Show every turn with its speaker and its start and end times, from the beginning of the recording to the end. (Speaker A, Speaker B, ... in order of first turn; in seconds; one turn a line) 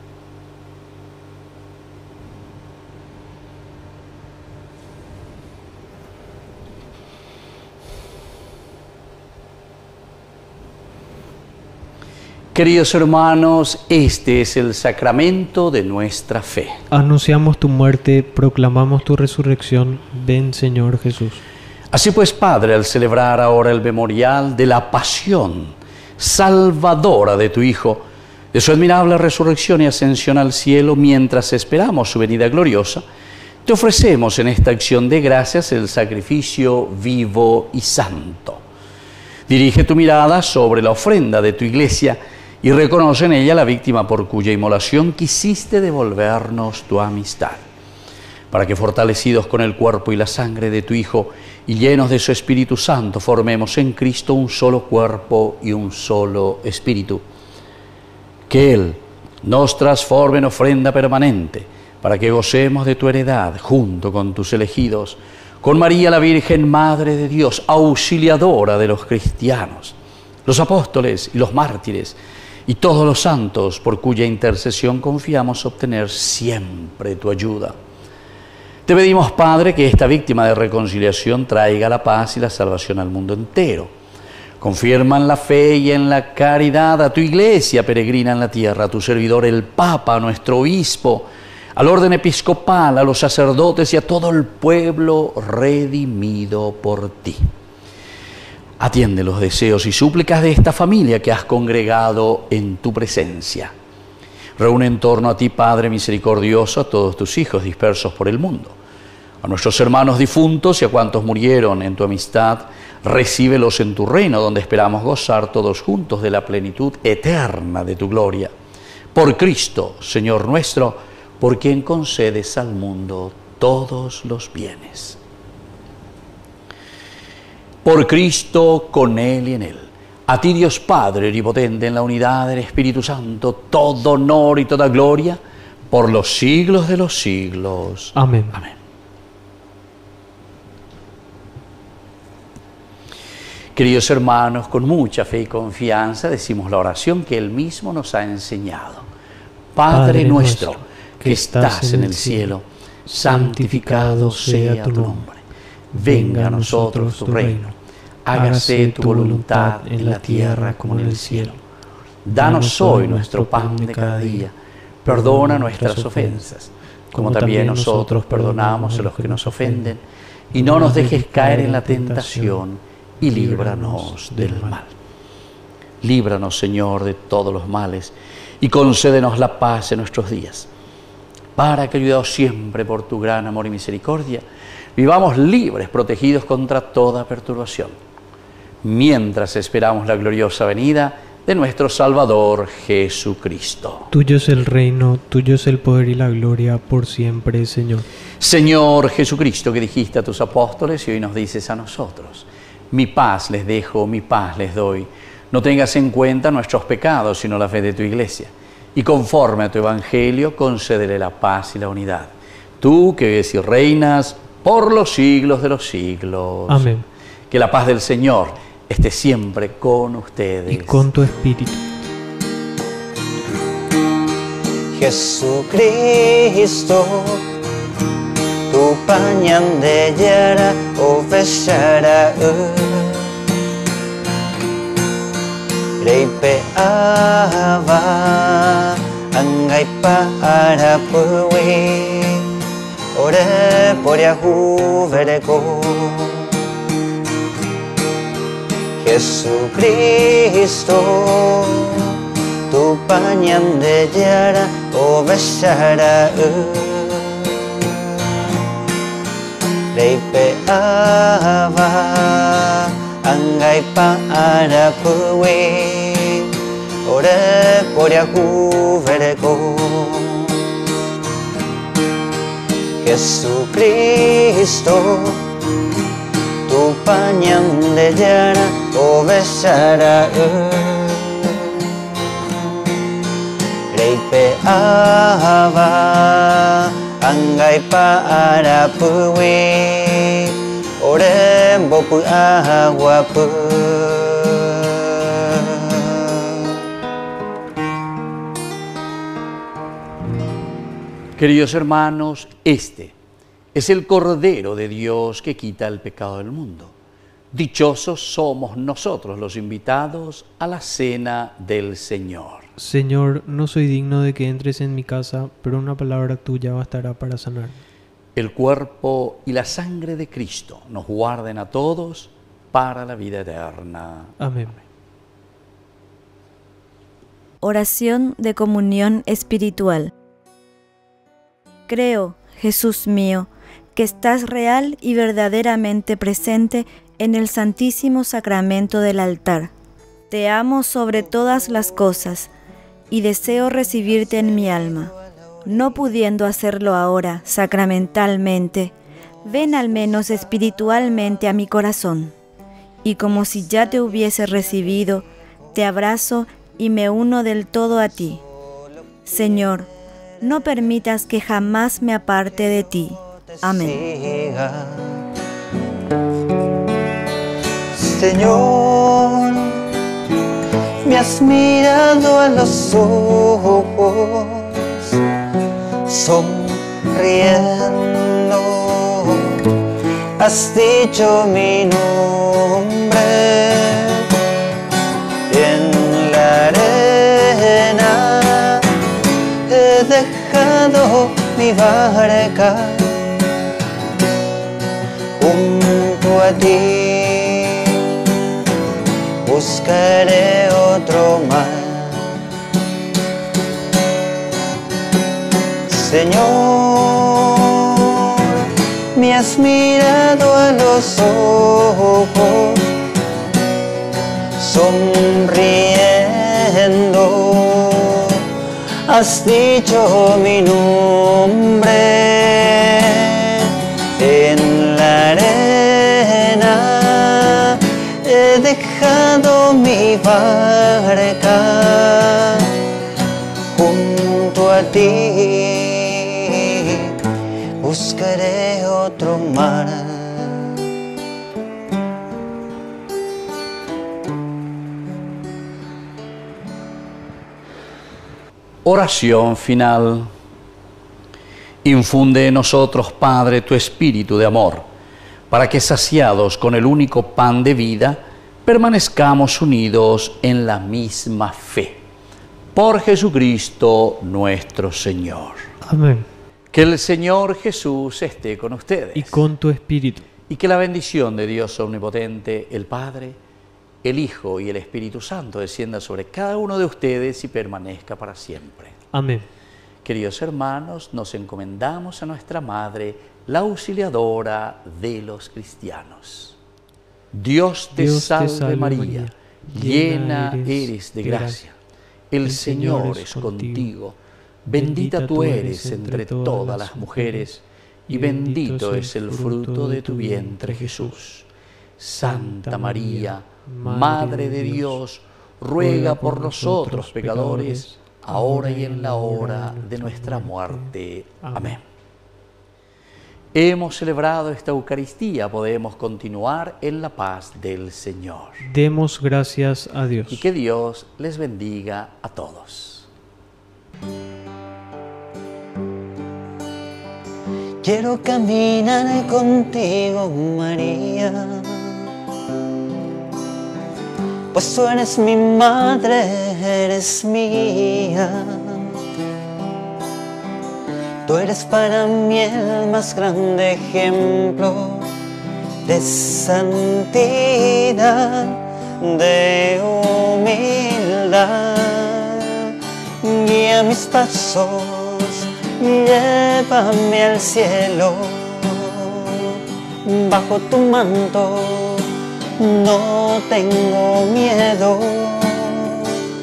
Speaker A: 12.5-16.8
Speaker B: 16.9-21.4
Speaker A: 21.9-33.0
Speaker A: 33.6-38.6
Speaker A: 39.5-47.6
Speaker A: 48.5-57.2
Speaker A: 58.5-77.8
Speaker A: 78.8-83.9
Speaker A: 84.6-97.5
Speaker A: 98.8-103.7
Speaker A: 104.6-108.8
Speaker A: 109.4-118.5
Speaker A: 119.1-125.2
Speaker A: 127.8-135.4
Speaker A: 135.9-138.8
Speaker B: 138.2-138.6
Speaker A: 143.7-149.1
Speaker A: 149.7-155.4
Speaker B: 149.9-152.5
Speaker B: 153.1-155.2
Speaker A: 155.9-157.7
Speaker B: 155.9-157.7
Speaker A: 158.2-161.6
Speaker B: 158.3-161.6
Speaker A: 162.2-164.5
Speaker B: 162.3-164.5
Speaker B: 165.0-166.5
Speaker A: 165.0-170.0
Speaker B: 167.1-169.9
Speaker A: 170.5-174.9
Speaker B: 170.5-172.6
Speaker B: 173.2-174.8
Speaker A: 176.0-180.7
Speaker A: 181.6-184.4
Speaker A: 184.9-187.9
Speaker A: 188.8-194.1
Speaker B: 194.1-198.1
Speaker A: 198.4-216.9
Speaker B: 216.7-217.1
Speaker A: 217.5-221.1
Speaker B: 220.7-221.8
Speaker C: 224.9-227.4
Speaker C: 228.7-233.3
Speaker C: 236.0-242.5
Speaker C: 243.1-246.5
Speaker C: 249.0-252.2
Speaker C: 252.7-258.1
Speaker C: 259.9-266.5
Speaker C: 267.0-270.6
Speaker C: 273.0-275.4
Speaker C: 276.7-281.7
Speaker C: 283.9-296.8
Speaker A: 301.4-303.1
Speaker A: 303.7-306.9
Speaker A: 307.5-312.7
Speaker B: 312.8-317.8
Speaker A: 318.4-324.4
Speaker B: 324.4-324.8
Speaker D: 327.6-330.1
Speaker D: 331.9-339.7
Speaker D: 340.3-342.5
Speaker D: 343.1-345.1
Speaker D: 345.6-348.9
Speaker D: 349.4-352.3
Speaker D: 353.0-358.4
Speaker D: 359.2-359.9
Speaker D: 360.4-364.0
Speaker C: 363.7-365.2
Speaker C: 367.9-369.8
Speaker C: 371.0-375.1
Speaker C: 376.0-379.7
Speaker C: 380.4-384.3
Speaker C: 385.5-388.9
Speaker C: 389.7-393.4
Speaker C: 395.4-398.2
Speaker C: 399.4-402.3
Speaker C: 405.9-413.0
Speaker C: 414.6-418.4
Speaker C: 419.1-432.7
Speaker C: 433.7-437.1
Speaker C: 437.8-440.7
Speaker A: 448.8-450.3
Speaker A: 451.8-454.8
Speaker A: 455.5-462.0
Speaker A: 462.7-465.7
Speaker B: 465.8-466.3
Speaker A: 466.7-469.4
Speaker B: 469.1-470.3
Speaker A: 470.5-473.4
Speaker A: 474.0-479.0
Speaker B: 479.1-479.5
Speaker A: 480.0-486.6
Speaker A: 487.3-491.8
Speaker B: 487.9-491.6
Speaker A: 492.3-501.5
Speaker B: 492.4-493.9
Speaker B: 494.7-501.2
Speaker A: 502.0-511.8
Speaker B: 502.2-505.0
Speaker B: 505.8-511.8
Speaker A: 513.5-518.7
Speaker B: 518.6-520.5
Speaker A: 520.3-523.1
Speaker C: 527.8-532.1
Speaker C: 534.5-538.9
Speaker C: 541.2-545.1
Speaker C: 545.8-566.2